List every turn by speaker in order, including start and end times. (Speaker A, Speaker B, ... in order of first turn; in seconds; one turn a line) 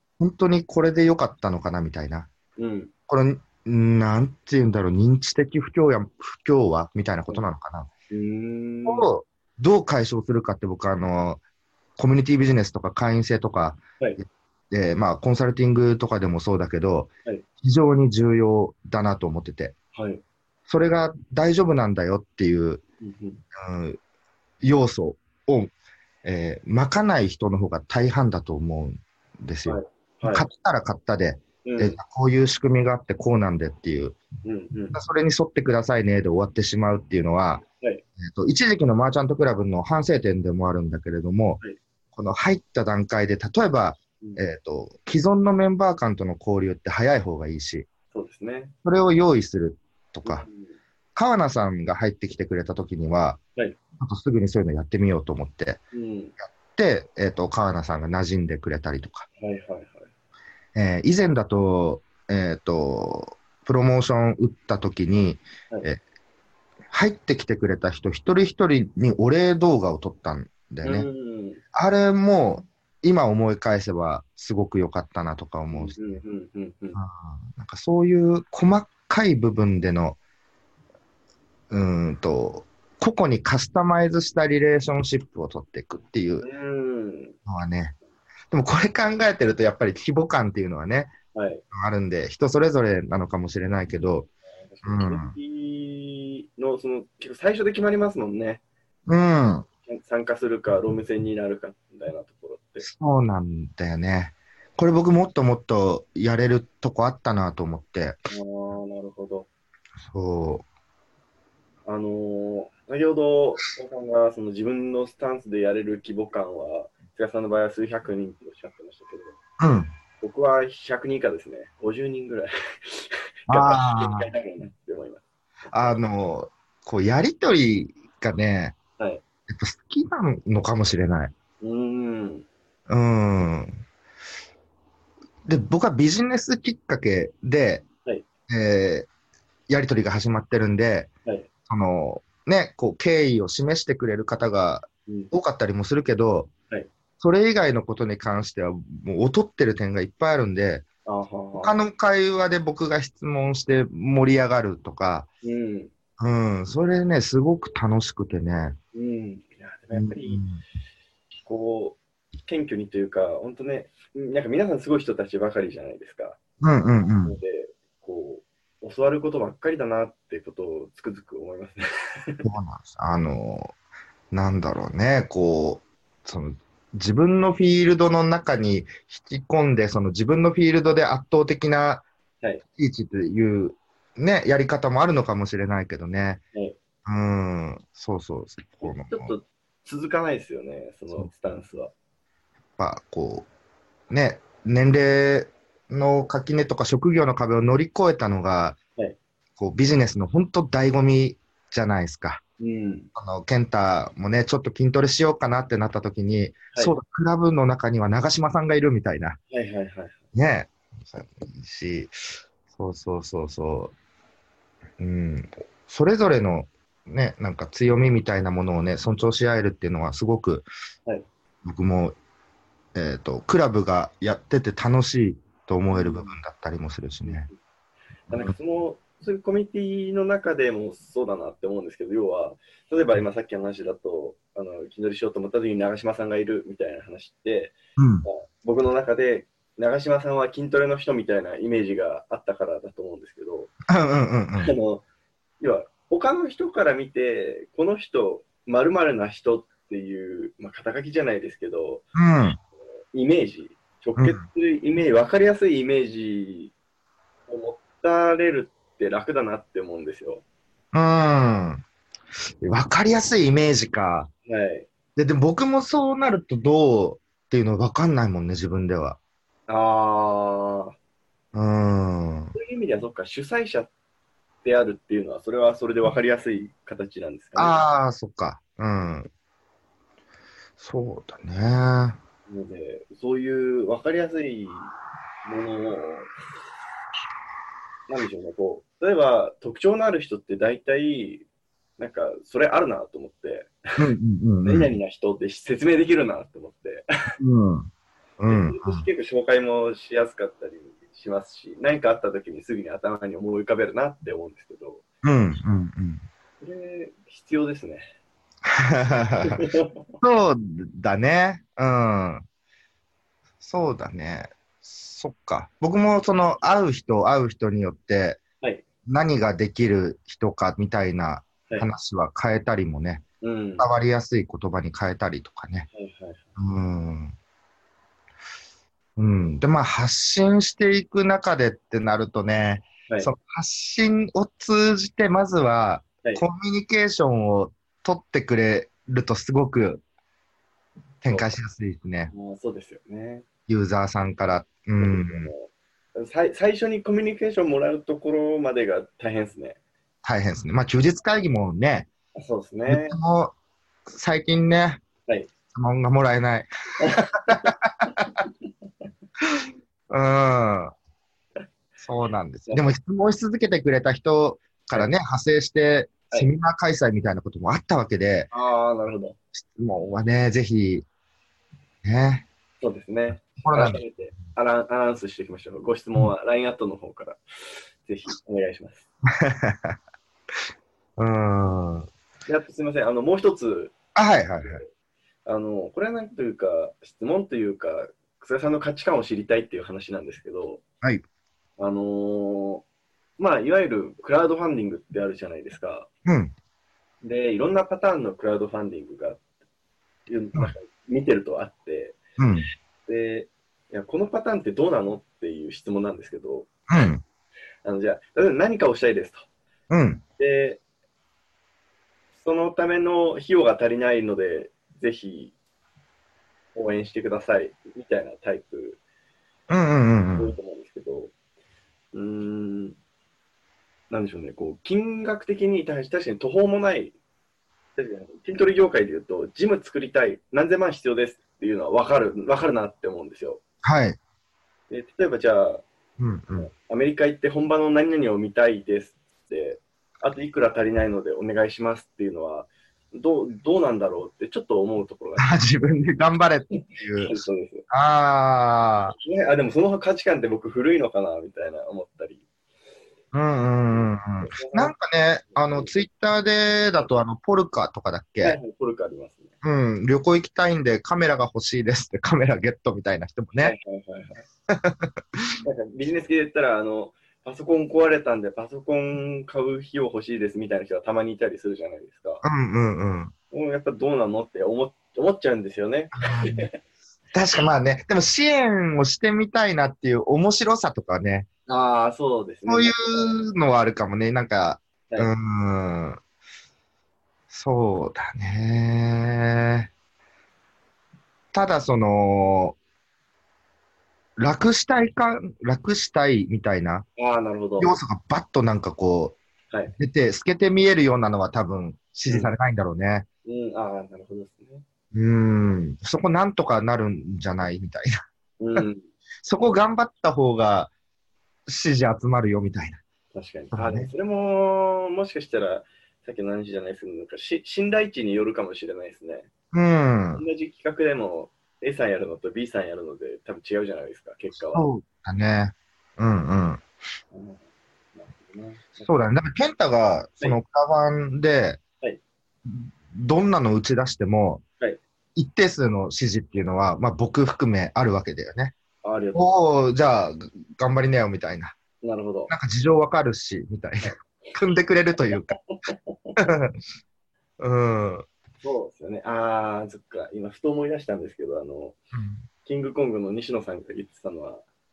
Speaker A: 0.2-2.3
Speaker B: 2.6-2.9
Speaker A: 3.1-7.9
Speaker B: 8.1-9.1
Speaker A: 8.8-11.4
Speaker A: 12.0-13.8
Speaker A: 14.7-17.1
Speaker A: 17.6-19.8
Speaker B: 19.9-20.2
Speaker A: 20.7-22.8
Speaker B: 23.0-23.4
Speaker A: 23.5-24.0
Speaker A: 24.6-25.7
Speaker A: 26.2-34.2
Speaker B: 29.7-30.4
Speaker B: 31.6-32.0
Speaker B: 34.4-35.0
Speaker A: 34.9-37.6
Speaker A: 38.2-41.6
Speaker A: 42.1-47.9
Speaker B: 48.1-48.7
Speaker A: 48.8-50.4
Speaker B: 50.2-50.8
Speaker A: 51.1-53.4
Speaker A: 54.0-55.8
Speaker B: 55.9-56.3
Speaker A: 56.5-59.3
Speaker B: 59.4-60.1
Speaker A: 60.8-66.0
Speaker A: 66.9-71.1
Speaker B: 70.8-71.6
Speaker A: 71.7-76.2
Speaker B: 75.7-77.0
Speaker A: 77.0-80.2
Speaker A: 81.7-86.5
Speaker B: 86.4-87.3
Speaker A: 87.5-87.9
Speaker A: 88.5-91.1
Speaker B: 91.3-91.6
Speaker A: 91.7-94.3
Speaker B: 94.6-98.6
Speaker A: 94.8-95.3
Speaker A: 99.1-99.7
Speaker B: 99.9-102.9
Speaker A: 102.8-108.2
Speaker B: 108.3-109.5
Speaker A: 110.0-110.7
Speaker B: 111.8-119.4
Speaker A: 119.6-119.9
Speaker B: 120.2-125.2
Speaker A: 123.5-124.3
Speaker A: 125.7-128.8
Speaker A: 129.5-131.3
Speaker B: 131.6-132.5
Speaker A: 132.9-133.8
Speaker A: 135.4-137.8
Speaker A: 138.5-139.1
Speaker A: 139.7-141.1
Speaker A: 141.7-146.5
Speaker B: 145.1-145.3
Speaker A: 147.2-150.8
Speaker B: 151.1-151.8
Speaker A: 151.6-155.3
Speaker B: 155.4-155.9
Speaker A: 156.2-158.8
Speaker B: 158.9-160.4
Speaker A: 159.9-160.6
Speaker B: 161.4-166.4
Speaker A: 166.6-167.4
Speaker B: 167.2-172.4
Speaker A: 172.4-173.7
Speaker A: 174.3-182.0
Speaker A: 182.8-186.4
Speaker A: 187.0-189.3
Speaker B: 188.8-191.9
Speaker A: 192.8-193.5
Speaker A: 194.1-198.8
Speaker A: 199.6-202.4
Speaker B: 202.6-203.1
Speaker A: 203.2-209.4
Speaker B: 209.5-210.2
Speaker A: 210.3-212.1
Speaker A: 212.7-213.9
Speaker A: 215.0-220.7
Speaker A: 221.6-222.1
Speaker A: 222.9-227.5
Speaker B: 225.9-226.3
Speaker B: 227.2-227.5
Speaker A: 228.3-228.5
Speaker B: 228.3-243.7
Speaker A: 238.0-238.2
Speaker A: 243.9-244.7
Speaker B: 244.6-245.0
Speaker B: 245.6-252.1
Speaker A: 252.1-252.6
Speaker B: 253.1-256.7
Speaker A: 254.2-254.4
Speaker B: 257.5-260.4
Speaker A: 260.9-261.8
Speaker A: 262.6-264.3
Speaker B: 264.5-264.9
Speaker A: 265.1-269.2
Speaker B: 269.7-270.9
Speaker A: 271.5-272.5
Speaker B: 272.5-273.9
Speaker B: 274.6-277.8
Speaker A: 277.6-279.3
Speaker A: 280.8-282.2
Speaker B: 282.5-284.9
Speaker B: 285.4-286.3
Speaker B: 288.1-291.4
Speaker B: 292.0-294.0
Speaker A: 294.0-294.9
Speaker B: 294.6-297.1
Speaker A: 297.4-299.1
Speaker B: 298.5-305.0
Speaker A: 305.2-306.2
Speaker B: 306.6-308.1
Speaker A: 308.6-309.6
Speaker B: 309.4-310.0
Speaker A: 310.2-312.4
Speaker A: 313.6-318.4
Speaker A: 319.1-323.2
Speaker B: 323.4-323.9
Speaker A: 323.8-325.9
Speaker B: 325.9-326.4
Speaker A: 326.6-327.4
Speaker A: 329.2-340.0
Speaker A: 341.2-342.3
Speaker B: 342.3-343.4
Speaker A: 343.7-345.5
Speaker B: 345.0-349.8
Speaker A: 350.2-352.1
Speaker B: 352.4-353.2
Speaker A: 352.9-353.5
Speaker A: 354.1-355.0
Speaker A: 355.7-356.7
Speaker B: 357.0-358.2
Speaker A: 357.3-358.1
Speaker A: 359.4-360.9
Speaker A: 362.0-368.5
Speaker B: 368.5-369.4
Speaker A: 369.5-371.1
Speaker A: 372.0-372.4
Speaker B: 372.8-377.4
Speaker A: 373.4-374.0
Speaker B: 378.0-379.1
Speaker A: 379.4-379.9
Speaker A: 381.2-382.1
Speaker B: 382.5-383.9
Speaker A: 384.1-384.8
Speaker B: 385.4-390.8
Speaker B: 391.8-392.8
Speaker B: 393.4-396.1
Speaker A: 396.2-396.5
Speaker B: 397.2-399.4
Speaker B: 400.3-402.2
Speaker A: 402.4-402.7
Speaker B: 403.1-406.7
Speaker A: 406.9-407.2
Speaker B: 407.8-409.4
Speaker A: 409.9-410.2
Speaker B: 410.4-410.8
Speaker B: 412.4-415.6
Speaker B: 416.8-419.0
Speaker A: 419.7-420.5
Speaker B: 420.3-421.3
Speaker B: 422.1-423.0
Speaker B: 424.1-427.1
Speaker B: 428.0-433.6
Speaker A: 433.8-434.2
Speaker B: 434.9-435.8
Speaker A: 436.2-436.7
Speaker B: 436.6-445.6
Speaker A: 445.4-447.4
Speaker B: 446.8-447.9
Speaker A: 447.9-449.1
Speaker B: 449.2-452.4
Speaker A: 453.3-458.6
Speaker B: 453.9-454.9
Speaker B: 455.5-456.0
Speaker B: 458.4-459.5
Speaker A: 459.6-463.8
Speaker B: 463.6-464.4
Speaker A: 464.7-465.6
Speaker B: 465.6-472.4
Speaker A: 472.4-473.3
Speaker B: 473.5-476.8
Speaker A: 476.2-476.7
Speaker A: 477.3-481.5
Speaker B: 481.7-483.3
Speaker A: 482.7-486.2
Speaker A: 487.5-489.9
Speaker A: 491.5-492.8
Speaker A: 494.4-497.1
Speaker B: 497.2-498.0
Speaker A: 497.8-499.4
Speaker A: 499.9-503.2
Speaker B: 502.3-502.5
Speaker B: 503.4-504.8
Speaker A: 505.1-508.2
Speaker B: 508.6-509.1
Speaker A: 509.4-510.9
Speaker A: 511.7-513.0
Speaker B: 513.3-519.5
Speaker A: 513.7-514.1
Speaker A: 519.7-520.4
Speaker B: 520.3-524.9
Speaker A: 524.7-526.8
Speaker B: 527.3-527.6
Speaker B: 528.1-529.1
Speaker A: 529.0-531.8
Speaker A: 532.6-534.6
Speaker A: 535.3-538.7
Speaker B: 539.0-539.5
Speaker A: 539.3-541.8
Speaker B: 542.0-542.5
Speaker A: 542.5-545.6
Speaker B: 544.0-544.5
Speaker B: 545.7-546.3
Speaker A: 546.4-546.7
Speaker A: 547.6-548.3
Speaker B: 548.6-552.0
Speaker A: 552.1-552.5
Speaker B: 552.6-554.6